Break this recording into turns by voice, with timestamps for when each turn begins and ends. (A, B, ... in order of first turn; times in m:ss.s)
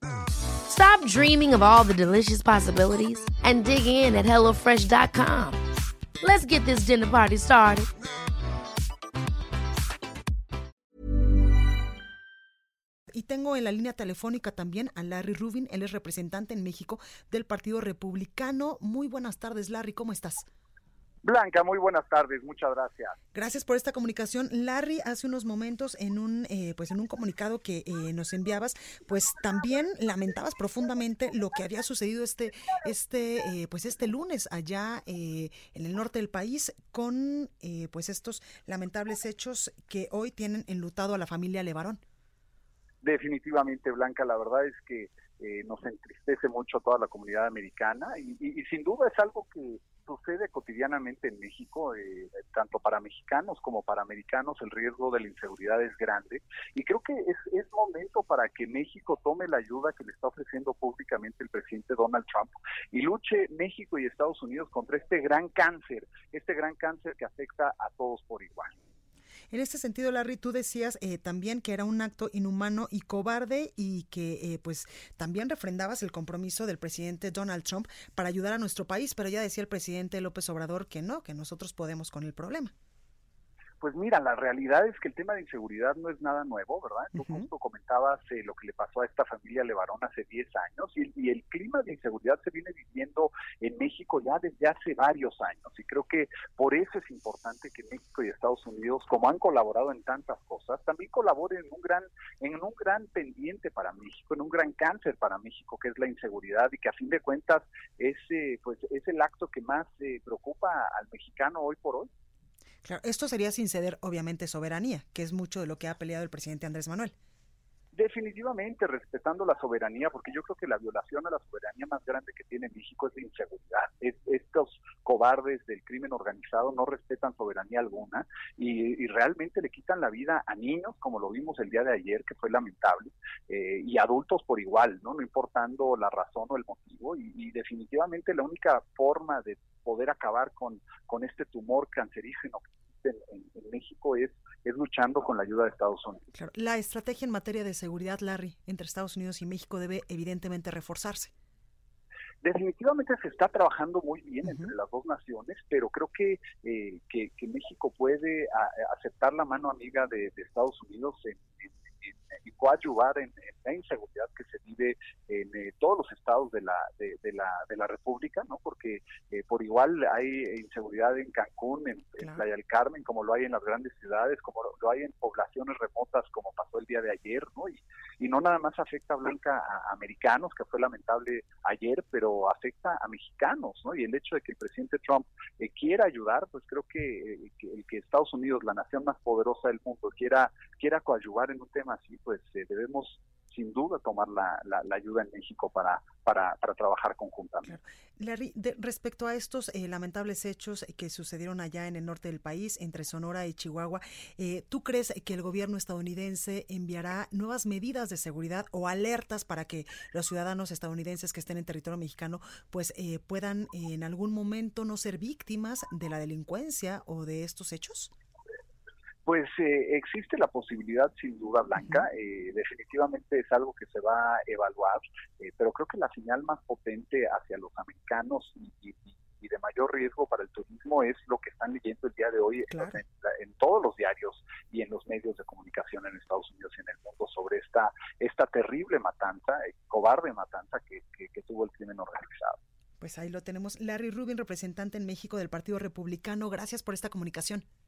0:00.6-0:05.6 A
0:06.2-0:07.9 A
0:13.1-0:20.5 B
0:21.2-0:23.2 C
0:23.3-0:42.0 B
0:43.0-1:08.7 C
1:09.5-1:22.7 B
1:23.8-1:52.1 C
1:27.1-1:27.5 B
1:52.8-1:57.1 B
1:57.9-2:26.2 C
2:26.3-2:31.3 B
2:32.4-3:17.8 C
2:34.4-2:34.7 B
3:17.6-3:38.1 B
3:39.2-4:02.6 C
3:41.8-3:42.0 B
3:52.7-3:53.0 B
4:03.0-4:07.6 B